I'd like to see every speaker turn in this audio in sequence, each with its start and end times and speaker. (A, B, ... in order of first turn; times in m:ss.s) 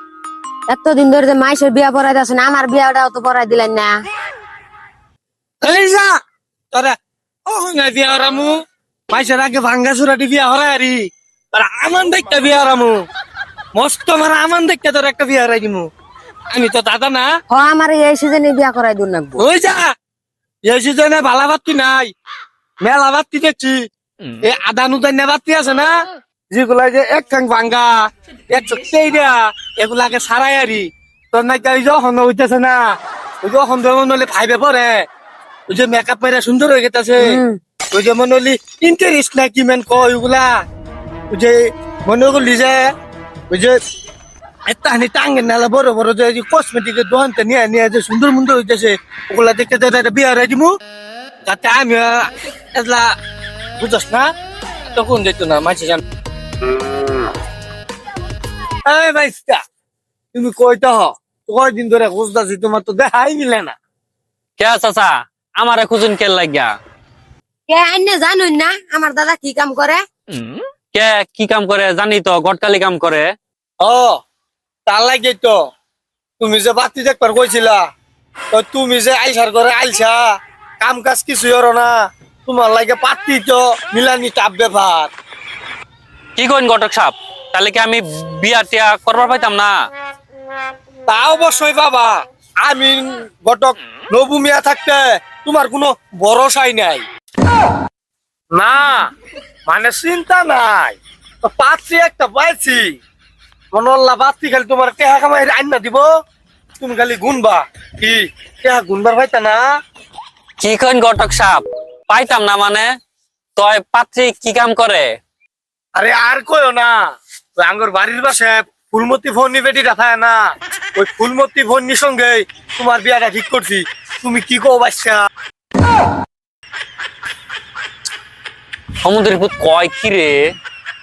0:00.7-0:03.9 A
0:05.6-0:06.2 B
0:07.5-0:08.6 B
0:09.1-0:13.0 B
0:13.7-0:15.9 B
0:16.5-0:17.3 B
0:17.5-0:19.4 A
0:19.4-0:19.8 B
0:20.6-0:22.1 B
0:22.8-0:23.8 B
0:24.4-0:25.9 B
0:26.5-0:32.8 B
0:33.4-0:35.0 B
0:35.7-0:37.4 B
0:37.2-0:37.6 A
0:37.9-0:40.6 B
0:41.3-0:42.9 B
0:43.5-0:43.8 B
0:44.7-0:50.7 B
0:51.4-0:53.1 B
0:53.8-0:54.3 B
0:54.9-0:56.0 B
0:58.8-0:59.6 B
1:00.3-1:03.8 B
1:04.6-1:06.7 C
1:07.7-1:10.0 A
1:10.3-1:13.3 C
1:13.8-1:14.2 B
1:14.8-1:15.6 B
1:16.4-1:17.8 B
1:18.5-1:20.3 B
1:20.8-1:25.1 B
1:26.4-1:29.7 C
1:31.1-1:37.0 B
1:38.5-1:39.1 B
1:39.7-1:42.9 B
1:43.7-1:46.1 B
1:46.8-1:49.7 B
1:50.6-1:52.8 C
1:53.6-1:55.1 C
1:55.9-1:57.0 B
1:57.6-2:00.4 B
2:01.0-2:05.3 B
2:09.0-2:10.4 C